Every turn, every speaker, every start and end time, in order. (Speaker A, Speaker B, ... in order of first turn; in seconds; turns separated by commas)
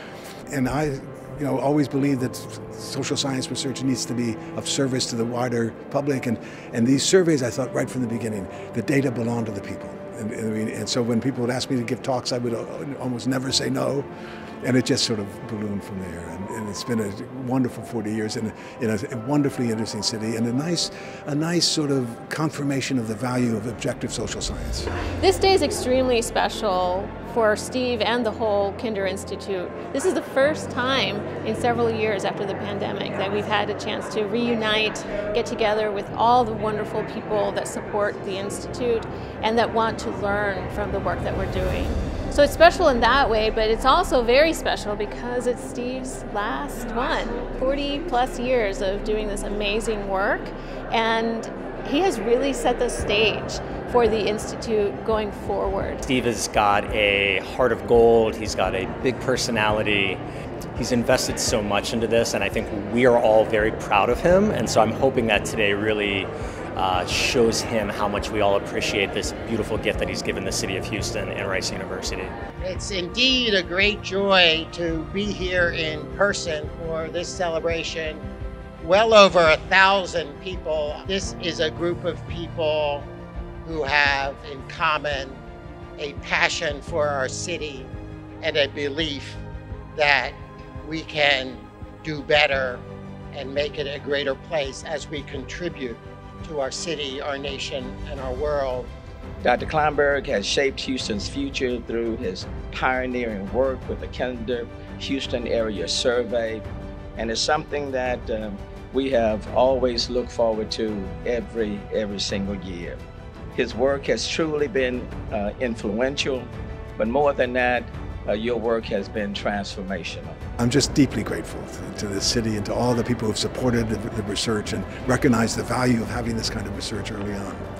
Speaker A: 0.5-14.1, Speaker A: 14.6-24.9, Speaker B: 25.2-56.0, Speaker C: 56.0-60.2, Speaker C: 60.8-72.3, Speaker D: 72.6-78.2, Speaker D: 78.8-83.1, Speaker D: 83.7-85.4, Speaker D: 86.0-87.9, Speaker D: 88.4-89.4, Speaker D: 89.9-98.9, Speaker E: 99.4-106.6, Speaker E: 107.2-113.0, Speaker E: 113.5-120.4, Speaker A: 120.6-127.6